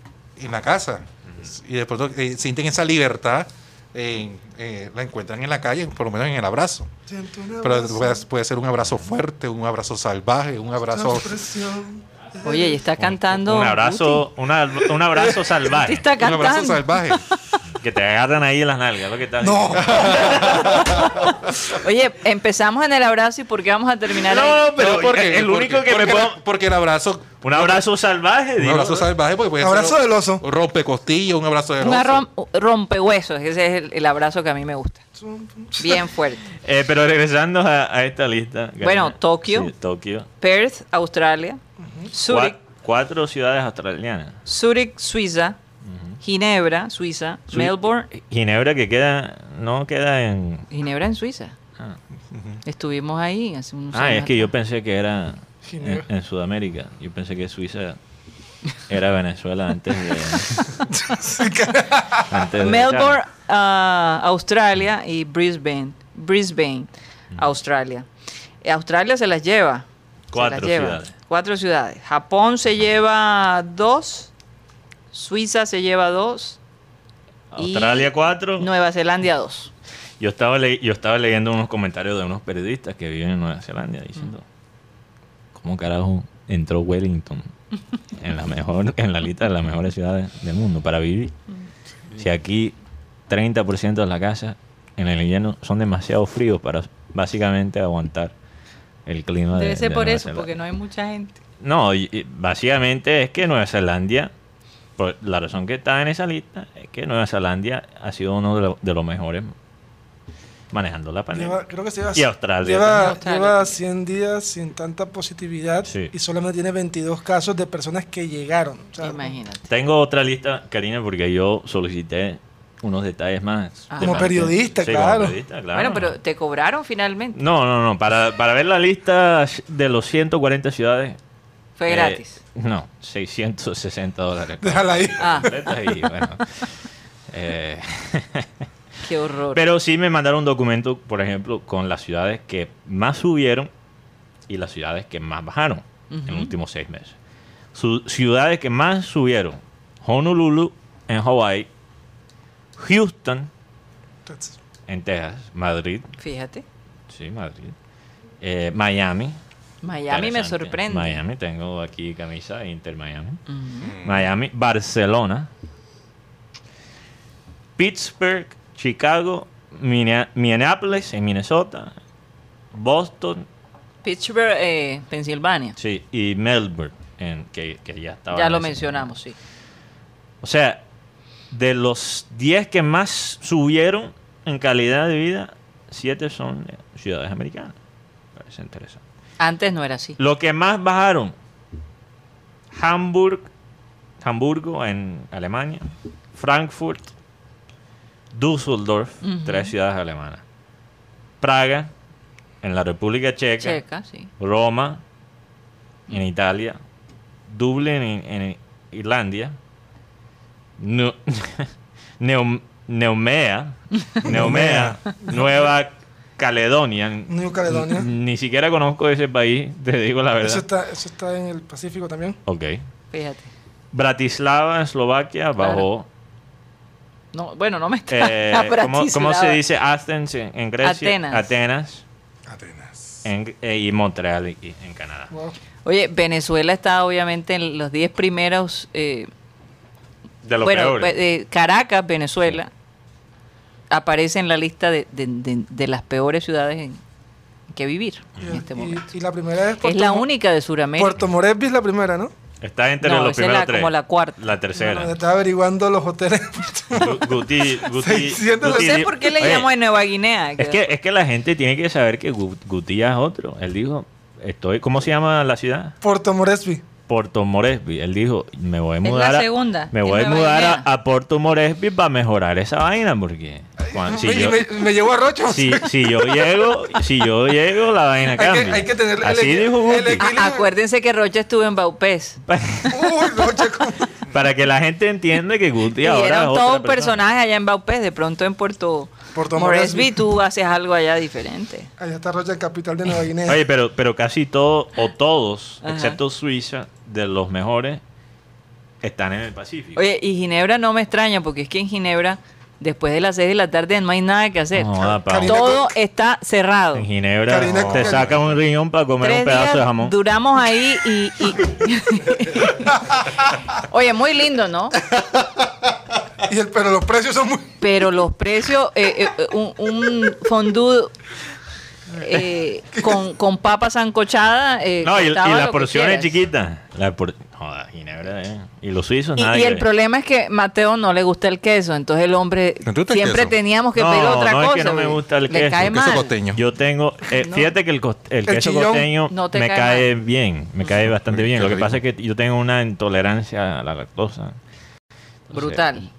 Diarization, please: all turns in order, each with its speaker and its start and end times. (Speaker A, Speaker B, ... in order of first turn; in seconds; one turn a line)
Speaker A: 0.4-6.9
Speaker B: 7.1-8.2
Speaker A: 7.6-11.4
Speaker B: 10.9-12.8
Speaker C: 12.4-14.3
Speaker D: 13.0-16.1
Speaker B: 15.1-15.6
Speaker C: 15.7-16.9
Speaker A: 16.1-17.2
Speaker D: 17.8-20.9
Speaker B: 19.4-20.8
Speaker A: 19.8-21.5
Speaker C: 20.7-24.6
Speaker D: 24.2-26.4
Speaker A: 24.7-27.8
Speaker D: 27.4-29.1
Speaker A: 28.6-32.2
Speaker B: 29.6-30.4
Speaker C: 31.8-35.0
Speaker B: 35.2-36.0
Speaker C: 35.8-36.5
Speaker D: 36.6-40.3
Speaker C: 38.8-39.7
Speaker C: 40.4-42.6
Speaker D: 42.3-44.4
Speaker C: 44.5-45.6
Speaker D: 45.9-46.2
Speaker C: 46.2-48.1
Speaker D: 47.5-50.7
Speaker C: 50.7-51.5
Speaker A: 52.3-52.6
Speaker C: 52.6-54.5
Speaker D: 53.9-58.0
Speaker B: 55.7-56.1
Speaker D: 58.9-60.7
Speaker B: 60.9-62.3
Speaker D: 62.3-63.2
Speaker C: 62.6-68.1
Speaker C: 68.6-74.3
Speaker D: 70.3-71.1
Speaker C: 75.1-76.6
Speaker D: 77.5-78.7
Speaker C: 77.6-79.7
Speaker D: 80.2-84.4
Speaker D: 85.5-87.5
Speaker D: 88.1-91.3
Speaker D: 92.1-92.8
Speaker D: 93.3-98.3
Speaker D: 99.1-100.5
Speaker C: 99.5-101.4
Speaker D: 101.6-104.3
Speaker D: 105.0-109.5
Speaker D: 110.7-111.6
Speaker B: 111.3-119.3
Speaker D: 112.1-113.1
Speaker C: 112.9-113.8
Speaker D: 115.8-116.1
Speaker C: 119.0-119.6
Speaker D: 119.7-126.2
Speaker C: 123.9-124.3
Speaker B: 124.0-125.4
Speaker C: 125.7-127.4
Speaker D: 127.3-131.2
Speaker C: 131.8-132.4
Speaker D: 131.9-136.8
Speaker B: 134.6-136.1
Speaker C: 135.2-135.5
Speaker D: 137.3-138.5
Speaker C: 139.0-139.6
Speaker D: 139.5-143.7
Speaker D: 144.5-147.1
Speaker C: 146.1-146.5
Speaker D: 147.7-151.7
Speaker D: 152.8-153.5
Speaker B: 154.2-154.5
Speaker D: 154.9-156.1
Speaker C: 156.2-156.6
Speaker D: 157.1-157.8
Speaker D: 158.4-159.4
Speaker C: 159.8-161.2
Speaker D: 160.1-163.4
Speaker C: 163.5-163.9
Speaker A: 163.8-164.3
Speaker D: 164.0-165.5
Speaker D: 167.8-172.0
Speaker D: 172.7-173.5
Speaker C: 174.0-175.8
Speaker D: 175.8-179.0
Speaker C: 178.3-179.4
Speaker D: 180.4-180.8
Speaker D: 181.5-187.8
Speaker D: 188.4-189.0
Speaker C: 189.4-190.2
Speaker D: 190.2-191.3
Speaker D: 192.7-193.5
Speaker D: 194.2-197.1
Speaker D: 198.3-200.4
Speaker C: 199.2-199.7
Speaker D: 201.4-201.9
Speaker D: 202.6-203.8
Speaker C: 203.6-204.3
Speaker D: 204.4-205.0
Speaker D: 206.1-206.8
Speaker D: 207.5-209.6
Speaker D: 210.8-220.6
Speaker B: 214.2-215.5
Speaker B: 217.3-218.1
Speaker B: 220.4-222.4
Speaker D: 222.5-222.8
Speaker C: 223.1-223.5
Speaker D: 223.9-226.1
Speaker C: 225.6-225.9
Speaker C: 227.3-229.6
Speaker D: 228.1-232.0
Speaker C: 230.8-231.5
Speaker A: 232.5-233.2
Speaker D: 233.2-235.3
Speaker B: 235.3-235.6
Speaker C: 235.8-239.3
Speaker D: 240.4-241.1
Speaker C: 240.6-242.7
Speaker C: 243.9-247.0
Speaker C: 247.7-249.0
Speaker B: 248.4-250.3
Speaker C: 249.8-251.2
Speaker B: 251.0-252.3
Speaker D: 252.6-255.1
Speaker C: 253.0-254.4
Speaker B: 254.8-259.2
Speaker D: 256.9-259.7
Speaker C: 258.6-260.8
Speaker D: 260.6-266.0
Speaker B: 266.0-266.8
Speaker D: 267.1-274.7
Speaker C: 269.0-270.9
Speaker B: 273.9-276.5
Speaker D: 275.5-280.2
Speaker B: 278.3-280.7
Speaker C: 280.2-282.4
Speaker D: 282.5-283.3
Speaker B: 282.9-284.2
Speaker D: 284.3-287.2
Speaker C: 286.0-291.9
Speaker B: 289.3-290.2
Speaker B: 292.0-293.6
Speaker D: 293.4-298.0
Speaker C: 295.8-296.2
Speaker D: 299.0-300.0
Speaker C: 299.9-307.1
Speaker D: 304.7-305.8
Speaker B: 305.1-305.9
Speaker D: 306.9-310.1
Speaker B: 307.5-308.3
Speaker A: 307.6-308.5
Speaker C: 309.2-312.9
Speaker B: 312.6-313.2
Speaker C: 313.8-315.0
Speaker B: 316.4-317.7
Speaker C: 317.8-321.1
Speaker C: 322.1-326.4
Speaker D: 325.0-329.9
Speaker C: 329.4-336.3
Speaker A: 332.8-333.6
Speaker D: 334.0-344.6
Speaker A: 335.8-336.6
Speaker C: 337.4-337.7
Speaker B: 338.5-339.1
Speaker C: 339.3-340.1
Speaker A: 340.9-342.0
Speaker D: 345.5-345.9
Speaker C: 345.5-346.1